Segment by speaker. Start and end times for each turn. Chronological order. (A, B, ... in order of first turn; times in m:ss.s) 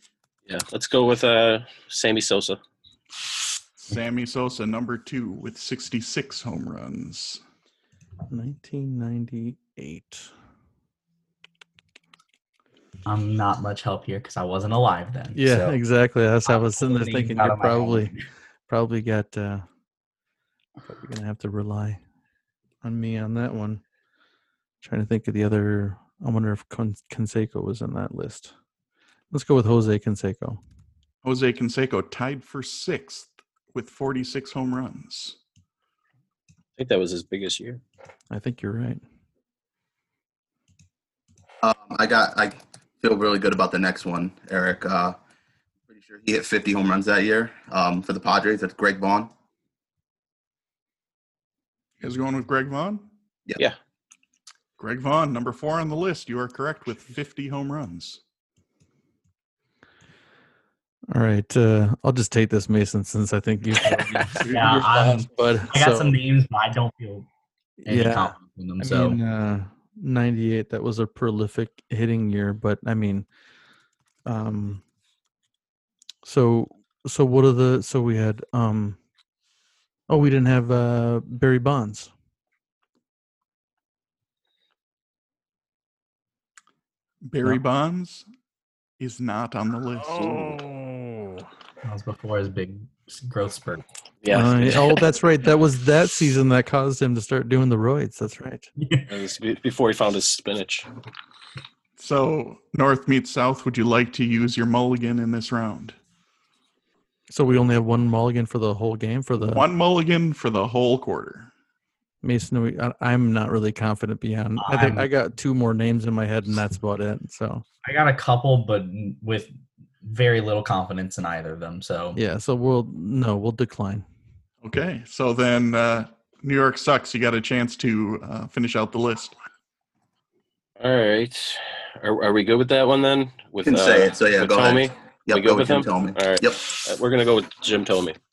0:00.5-0:02.6 A
0:03.8-0:07.4 B
0:08.3-0:10.3 C
0:13.1-0:15.8 D
0:15.4-0:18.2 C
0:16.5-0:18.2 D
0:18.7-0:19.7 C
0:20.9-0:22.0 C
0:22.8-0:23.8 C
0:24.8-0:28.5 C
0:29.3-0:30.6 C
0:31.2-0:35.4 B
0:36.8-0:37.8 A
0:38.3-0:39.0 C
0:41.6-0:45.2 E
0:45.9-0:49.3 E
0:52.0-0:53.1 B
0:54.8-0:58.2 B
1:01.1-1:06.2 C
1:03.8-1:07.3 D
1:07.8-1:13.3 C
1:07.9-1:09.2 D
1:14.3-1:14.8 C
1:16.2-1:19.0 C
1:20.1-1:22.1 C
1:27.2-1:28.3 B
1:29.0-1:30.6 B
1:31.8-1:33.8 D
1:34.2-1:35.0 A
1:34.3-1:38.7 C
1:38.8-1:39.1 D
1:39.1-1:40.9 A
1:42.0-1:46.0 B
1:47.3-1:49.7 C
1:49.4-1:51.5 B
1:52.2-1:57.6 C
1:54.6-1:55.1 D
1:57.8-2:02.2 D
2:02.2-2:04.0 C
2:04.6-2:09.4 B
2:10.8-2:18.2 A
2:13.6-2:16.6 E